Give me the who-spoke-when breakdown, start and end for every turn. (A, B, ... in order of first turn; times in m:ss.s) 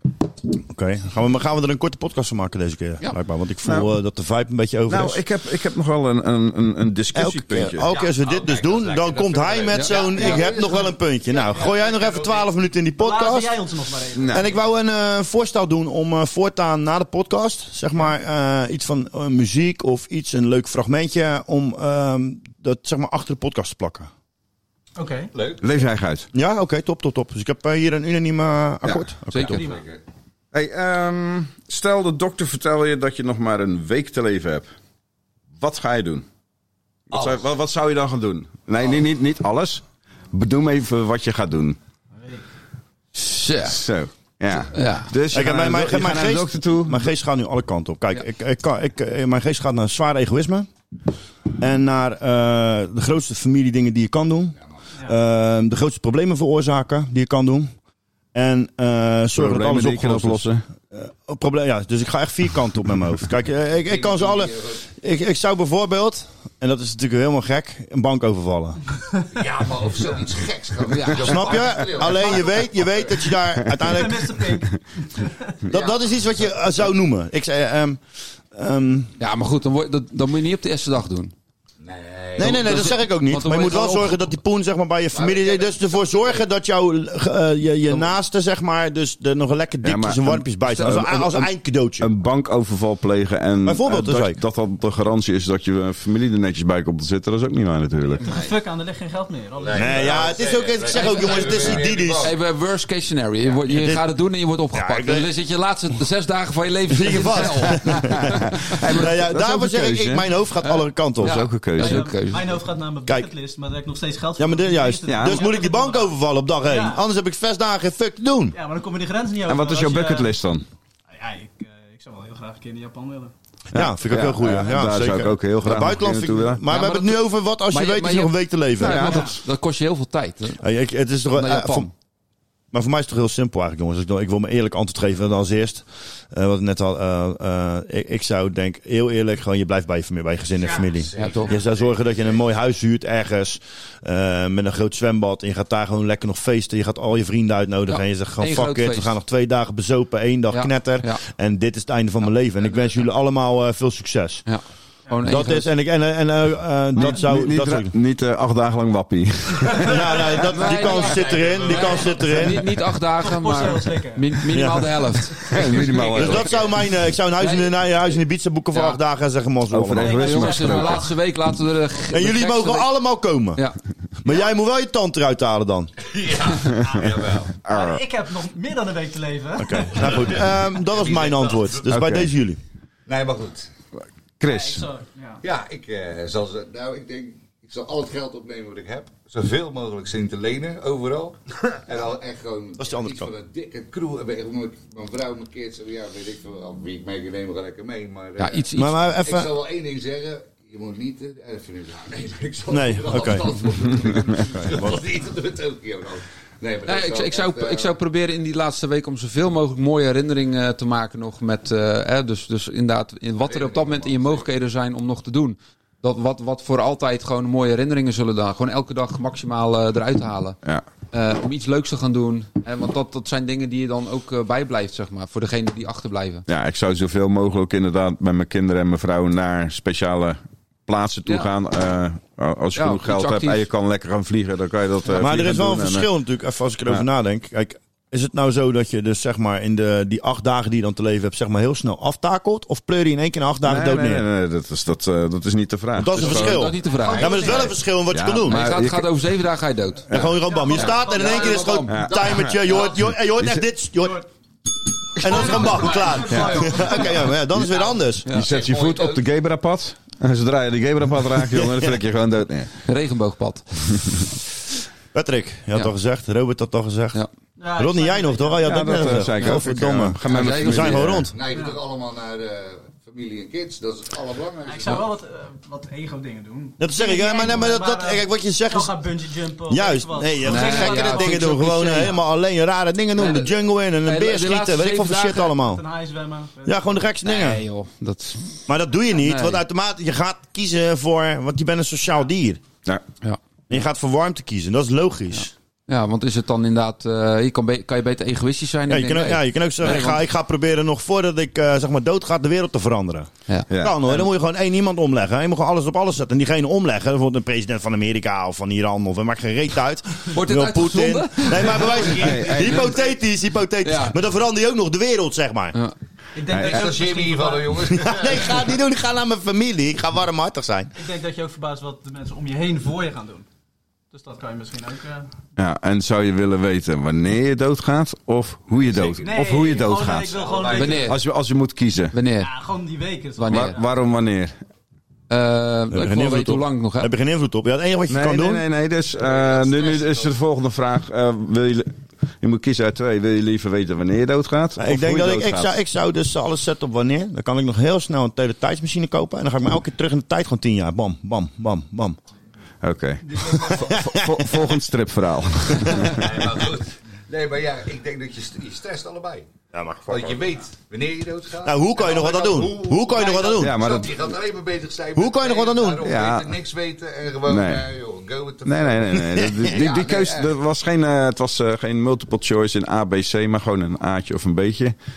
0:00.7-0:05.2 A
0:03.6-0:03.9 B
0:04.9-0:07.9 B
0:07.1-0:13.5 A
0:07.8-0:12.5 C
0:09.7-0:10.3 D
0:10.2-0:10.9 E
0:13.0-0:14.6 E
0:14.1-0:14.4 B
0:14.3-0:24.1 A
0:25.0-0:25.3 E
0:25.3-0:25.7 C
0:25.6-0:26.3 B
0:26.3-0:29.5 A
0:28.9-0:29.6 D
0:29.3-0:30.0 C
0:29.5-0:29.8 E
0:30.5-0:34.7 B
0:35.6-0:36.2 B
0:37.1-0:41.8 B
0:37.1-0:37.4 C
0:38.8-0:39.0 C
0:42.1-0:42.5 E
0:43.1-0:43.8 D
0:43.6-0:47.1 B
0:44.7-0:45.1 D
0:45.3-0:50.7 A
0:51.6-0:57.7 A
0:58.3-1:08.8 A
0:59.3-1:00.6 B
1:03.8-1:04.8 C
1:09.3-1:13.1 C
1:10.8-1:11.7 D
1:11.2-1:14.4 A
1:12.0-1:12.5 E
1:13.8-1:15.6 E
1:15.7-1:18.0 A
1:15.7-1:16.0 C
1:18.5-1:19.1 A
1:19.2-1:21.3 D
1:21.8-1:22.9 C
1:22.4-1:32.1 A
1:22.4-1:24.2 D
1:25.1-1:26.5 C
1:29.8-1:38.3 B
1:33.6-1:34.4 A
1:38.2-1:41.8 E
1:39.6-1:42.3 C
1:39.7-1:42.3 A
1:42.2-1:48.8 D
1:43.7-1:44.0 A
1:44.7-1:45.2 A
1:46.9-1:48.4 A
1:48.2-1:50.2 B
1:48.9-1:51.4 A
1:50.8-1:52.6 D
1:51.2-1:52.0 B
1:51.8-1:57.0 E
1:54.4-1:58.5 A
1:55.1-1:55.4 B
1:58.5-2:00.3 E
1:59.5-2:00.6 B
2:01.1-2:03.3 E
2:03.7-2:06.6 B
2:03.7-2:09.2 A
2:06.7-2:10.6 D
2:08.8-2:09.2 B
2:08.9-2:09.4 E
2:10.6-2:11.9 A
2:11.3-2:11.9 D
2:12.7-2:34.4 A
2:20.5-2:22.4 C
2:21.2-2:21.5 D
2:27.9-2:29.2 D
2:30.5-2:31.2 D
2:34.5-2:35.7 D
2:35.1-2:35.3 E
2:35.2-2:37.9 A
2:37.0-2:40.0 B
2:39.8-2:42.8 A
2:40.3-2:42.5 C
2:40.4-2:45.6 D
2:41.7-2:42.1 E
2:43.2-2:44.5 E
2:44.5-2:45.2 A
2:45.4-2:45.9 E
2:45.5-2:46.5 B
2:45.5-2:46.8 C
2:46.2-2:50.1 A
2:49.7-2:51.1 B
2:50.0-2:52.9 D
2:50.0-2:51.1 E
2:52.1-2:53.6 A
2:54.2-2:55.9 A
2:56.0-2:57.6 C
2:57.6-2:58.0 B
2:57.7-3:00.4 E
2:59.6-3:02.6 A
3:00.0-3:00.3 C
3:00.8-3:01.9 C
3:01.9-3:02.3 B
3:03.1-3:03.7 C
3:04.0-3:04.9 B
3:04.4-3:05.4 E
3:05.4-3:28.0 C
3:12.8-3:13.3 A
3:18.4-3:19.1 D
3:18.8-3:19.5 A
3:22.7-3:23.5 A
3:24.5-3:25.0 A
3:26.8-3:40.6 D
3:33.4-3:34.5 C
3:41.1-3:46.4 D
3:46.5-3:56.1 B
3:52.8-3:53.6 D
3:55.2-4:04.2 A
4:03.6-4:06.7 B
4:06.0-4:08.6 A
4:06.1-4:07.7 D
4:06.9-4:07.8 E
4:08.1-4:09.1 B
4:08.4-4:11.8 D
4:10.1-4:10.4 B
4:10.1-4:14.2 A
4:10.4-4:11.8 E
4:11.1-4:13.0 C
4:11.9-4:12.6 B
4:13.3-4:13.6 B
4:14.0-4:14.2 E
4:15.2-4:18.3 A
4:15.2-4:17.4 E
4:15.2-4:17.0 C
4:16.3-4:16.6 B
4:17.5-4:19.2 C
4:18.3-4:22.8 B
4:21.6-4:21.9 A
4:22.8-4:23.7 D
4:23.9-4:24.2 B
4:25.1-4:27.2 A
4:27.6-4:29.1 E
4:27.8-4:31.4 A
4:28.6-4:31.3 B
4:30.2-4:31.2 D
4:30.3-4:35.0 C
4:31.5-4:31.8 E
4:34.6-4:42.2 E
4:36.8-4:38.9 A
4:39.7-4:45.8 A
4:40.4-4:42.2 D
4:43.2-4:45.5 D
4:45.6-4:47.0 E
4:46.6-4:47.6 A
4:47.2-4:48.5 D
4:48.7-4:52.6 A
4:49.1-4:49.6 D
4:53.7-4:55.5 A
4:55.3-5:00.2 D
4:58.9-5:15.8 A
5:03.7-5:04.0 B
5:10.3-5:13.1 D
5:12.1-5:12.8 B
5:13.8-5:14.1 D
5:16.3-5:17.8 E
5:16.5-5:16.8 B
5:16.5-5:18.7 C
5:17.9-5:20.9 A
5:21.0-5:23.5 E
5:24.1-5:25.3 E
5:25.6-5:30.4 B
5:28.7-5:29.4 C
5:29.2-5:31.2 E
5:30.3-5:31.1 C
5:30.7-5:31.2 D
5:31.0-5:32.2 B
5:32.1-5:32.5 D
5:32.4-5:33.9 E
5:33.4-5:33.7 D
5:33.5-5:34.6 B
5:35.3-5:37.1 D
5:35.9-5:38.6 A
5:38.1-5:45.8 B
5:39.1-5:40.3 C
5:44.8-5:52.2 A
5:52.8-5:56.3 B
5:53.2-5:53.8 E
5:53.8-5:54.6 A
5:56.0-5:59.5 C
5:59.7-6:00.5 A
6:00.1-6:10.5 C
6:01.6-6:03.7 A
6:03.5-6:04.2 B
6:05.2-6:06.0 A
6:06.0-6:06.6 B
6:07.4-6:07.9 B
6:08.6-6:14.9 B
6:09.2-6:09.7 A